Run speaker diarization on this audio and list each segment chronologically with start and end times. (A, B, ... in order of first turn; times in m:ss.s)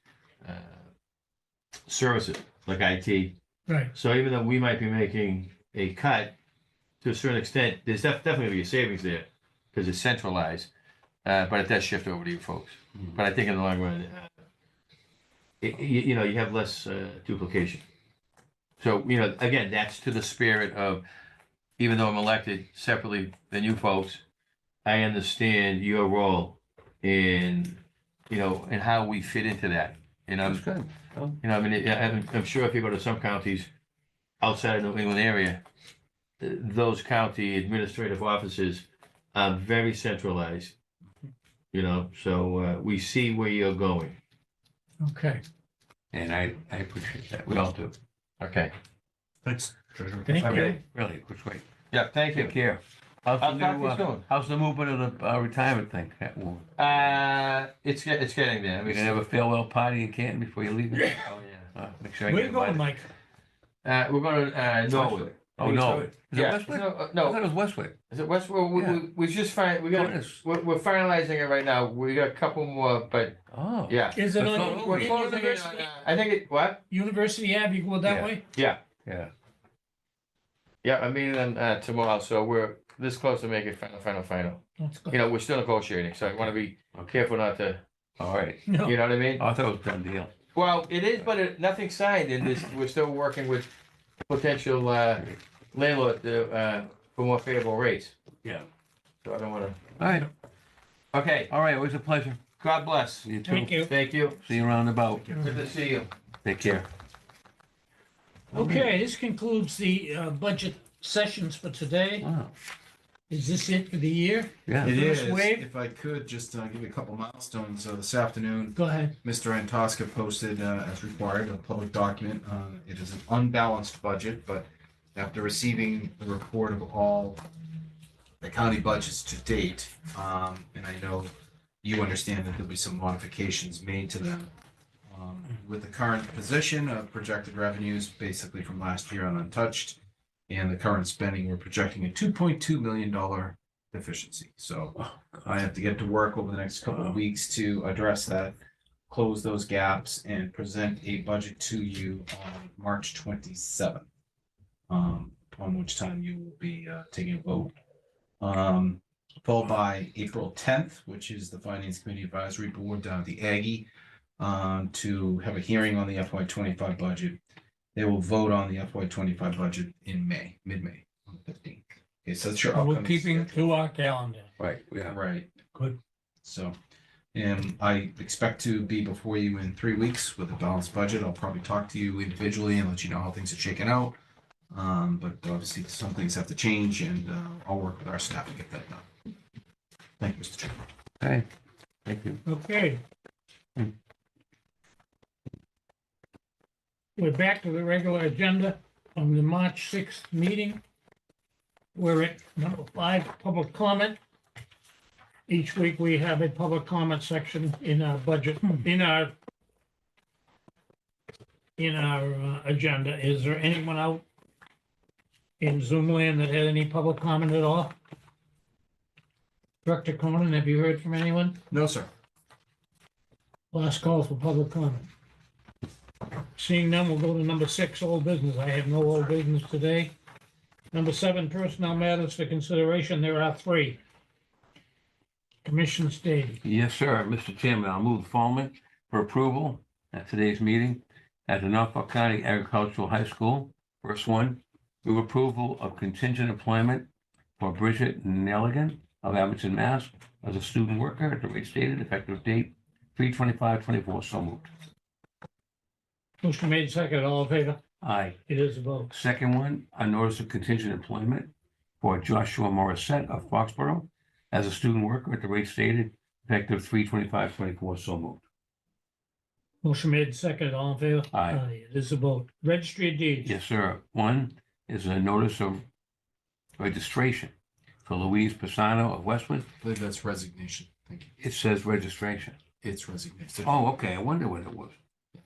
0:00.4-0:00.8 A
0:01.9-0:03.4 A
0:03.9-0:06.4 A
0:07.0-0:10.7 A
0:11.2-0:14.3 A
0:15.6-0:17.8 A
0:18.8-0:21.0 A
0:21.8-0:24.2 A
0:24.8-0:30.6 A
0:30.4-0:31.4 B
0:31.4-0:33.7 A
0:34.4-0:35.6 A
0:36.4-0:40.8 A
0:41.7-0:44.2 A
0:45.0-0:45.4 C
0:46.1-0:47.9 B
0:48.4-0:48.7 A
0:49.4-0:50.7 D
0:50.3-0:50.7 C
0:50.4-0:51.6 B
0:50.4-0:50.8 A
0:51.9-0:52.6 A
0:52.3-0:57.2 B
0:53.4-0:54.2 A
0:56.8-0:59.2 A
0:58.8-1:02.9 B
1:00.9-1:01.2 C
1:01.2-1:01.7 A
1:02.3-1:03.1 C
1:03.8-1:07.4 A
1:04.9-1:08.0 B
1:08.1-1:16.8 A
1:08.7-1:09.0 B
1:09.9-1:10.4 B
1:13.5-1:15.2 B
1:14.2-1:15.9 C
1:16.9-1:18.4 C
1:18.0-1:18.3 B
1:18.5-1:18.8 A
1:19.0-1:19.3 B
1:20.8-1:27.8 A
1:24.8-1:25.2 C
1:28.2-1:28.8 B
1:28.7-1:29.0 C
1:28.8-1:29.4 A
1:29.4-1:30.3 B
1:30.5-1:33.7 A
1:34.3-1:38.1 A
1:39.2-1:39.8 A
1:40.0-1:40.3 B
1:41.1-1:41.5 A
1:41.5-1:42.4 B
1:42.6-1:43.3 A
1:43.2-1:43.8 B
1:43.4-1:43.9 C
1:43.8-1:44.4 A
1:44.4-1:45.4 B
1:45.4-1:46.1 A
1:46.4-1:46.9 B
1:48.5-1:52.3 C
1:48.5-1:48.9 B
1:52.2-1:52.5 B
1:53.3-1:55.6 C
1:54.7-1:55.0 B
1:54.8-2:07.4 D
1:58.8-1:59.1 C
2:08.4-2:11.3 D
2:11.8-2:14.5 D
2:15.1-2:20.0 D
2:20.5-2:28.5 D
2:25.0-2:25.6 B
2:26.9-2:27.2 B
2:29.1-2:34.1 D
2:34.9-2:37.7 D
2:38.4-2:43.9 D
2:44.4-2:47.4 D
2:48.0-2:53.7 D
2:52.7-2:54.5 C
2:54.6-2:55.2 B
2:55.1-2:55.5 D
2:56.4-2:56.8 D
2:57.3-3:04.2 D
3:04.7-3:09.1 D
3:10.2-3:10.8 D
3:11.2-3:11.5 B
3:12.1-3:12.4 B
3:12.4-3:13.0 C
3:17.2-3:20.8 C
3:22.0-3:24.2 C
3:25.5-3:29.4 C
3:31.8-3:34.2 C
3:35.6-3:37.9 C
3:39.8-3:41.6 C
3:41.7-3:42.1 D
3:43.7-3:45.1 C
3:46.6-3:50.1 C
3:50.9-3:54.0 C
3:55.6-3:56.6 C
3:56.6-4:14.7 B
4:16.4-4:17.8 C
4:18.0-4:18.4 B
4:18.5-4:19.2 C
4:19.1-4:28.4 B
4:29.8-4:33.5 C
4:31.3-4:31.6 B
4:33.4-4:35.9 B
4:36.8-4:37.5 B
4:38.0-4:39.7 B
4:39.8-4:41.3 D
4:41.4-4:42.6 B
4:42.8-4:43.9 D
4:43.6-4:45.0 B